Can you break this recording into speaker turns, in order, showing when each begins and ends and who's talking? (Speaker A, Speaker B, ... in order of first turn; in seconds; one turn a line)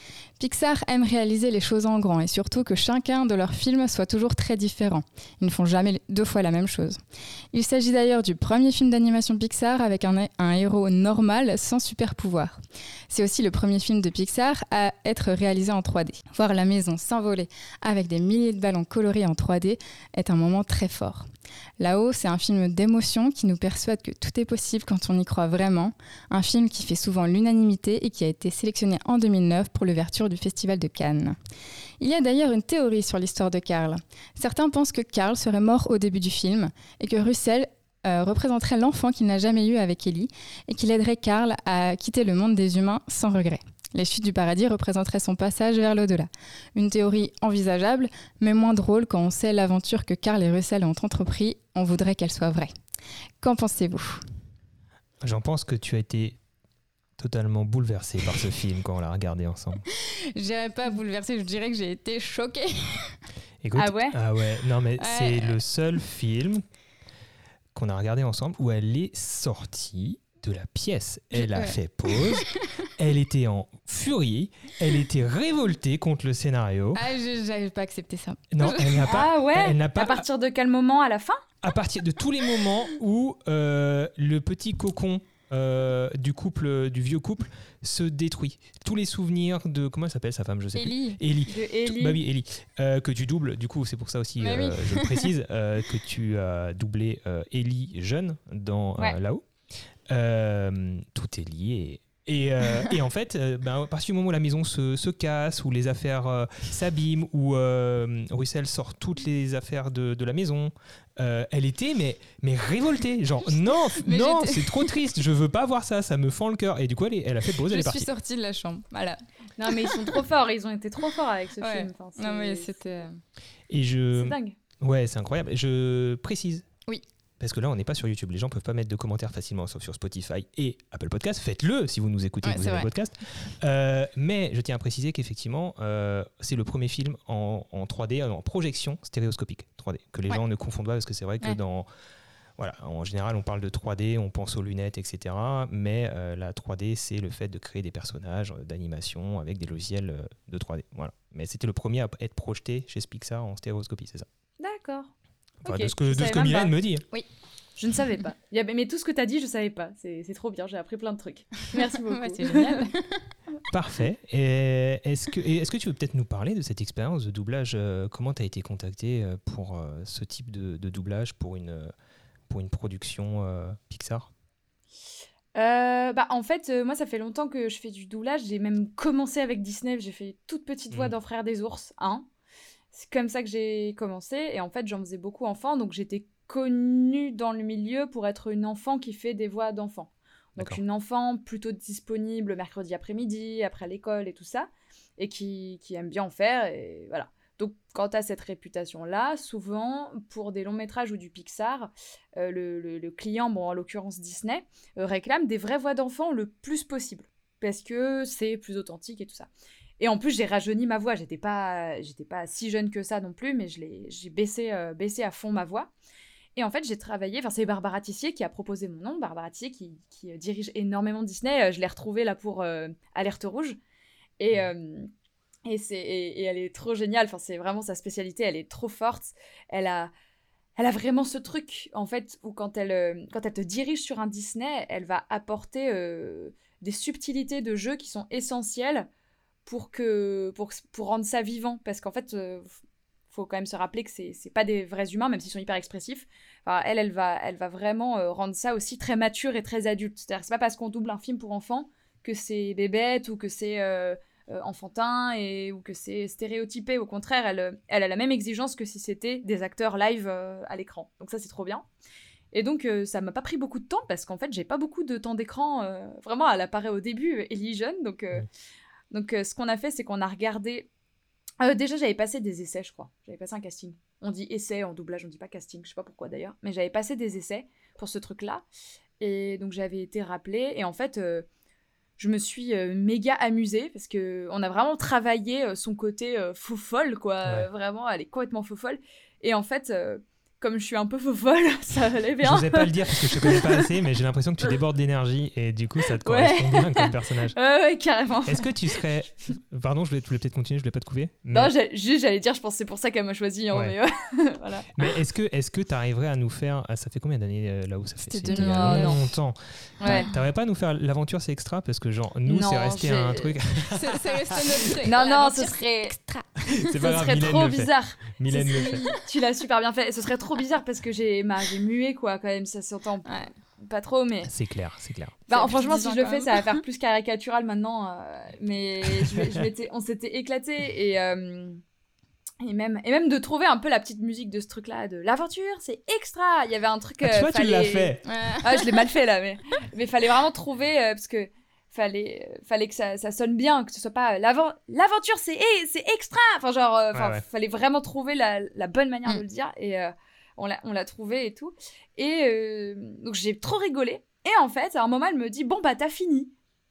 Speaker A: 0.4-7.0
Speaker A: 7.5-12.6
Speaker A: 13.1-21.3
Speaker A: 21.8-31.4
Speaker A: 32.0-52.7
Speaker A: 53.4-54.2
Speaker B: 55.2-56.4
Speaker B: 57.2-59.8
Speaker A: 59.9-63.2
Speaker B: 63.6-66.6
Speaker C: 63.8-64.2
Speaker A: 65.0-65.6
Speaker B: 67.7-77.0
Speaker A: 71.3-72.8
Speaker A: 77.0-79.2
Speaker B: 78.5-80.2
Speaker C: 79.0-81.4
Speaker B: 81.6-99.5
Speaker A: 90.7-91.2
Speaker C: 91.5-92.2
Speaker A: 94.4-95.3
Speaker B: 100.1-118.1
Speaker A: 114.0-115.0
Speaker A: 117.7-120.2
Speaker C: 119.6-123.1
Speaker A: 121.6-123.2
Speaker B: 123.7-126.7
Speaker C: 124.1-124.5
Speaker B: 127.4-141.9
Speaker A: 132.4-132.9
Speaker B: 142.6-154.3
Speaker C: 154.6-155.1
Speaker B: 155.6-157.1
Speaker C: 155.7-156.8
Speaker C: 157.8-162.9
Speaker A: 161.8-163.3
Speaker B: 163.7-171.9
Speaker B: 172.5-174.3
Speaker C: 175.6-182.3
Speaker C: 182.9-215.9
Speaker C: 216.6-223.8
Speaker C: 224.4-225.1
Speaker C: 225.7-230.1
Speaker C: 230.8-239.1
Speaker C: 239.7-242.8
Speaker C: 243.3-261.9
Speaker C: 262.5-268.5
Speaker C: 269.1-270.9
Speaker C: 271.6-278.7
Speaker C: 279.2-281.5
Speaker C: 282.2-293.9
Speaker B: 292.4-297.6
Speaker C: 296.1-299.0
Speaker B: 298.4-301.7
Speaker C: 301.5-305.2
Speaker B: 304.9-314.5
Speaker A: 308.3-309.2
Speaker C: 308.5-309.3
Speaker C: 310.0-310.3
Speaker A: 310.0-310.3
Speaker C: 312.5-313.6
Speaker A: 313.9-317.0
Speaker C: 315.0-316.2
Speaker B: 316.8-319.0
Speaker C: 316.8-324.5
Speaker A: 318.5-319.2
Speaker A: 323.2-323.5
Speaker B: 324.4-325.5
Speaker C: 325.5-331.8
Speaker A: 325.5-326.8
Speaker B: 329.1-329.4
Speaker C: 332.6-356.5
Speaker B: 337.2-338.2
Speaker A: 338.2-338.9
Speaker B: 347.1-347.4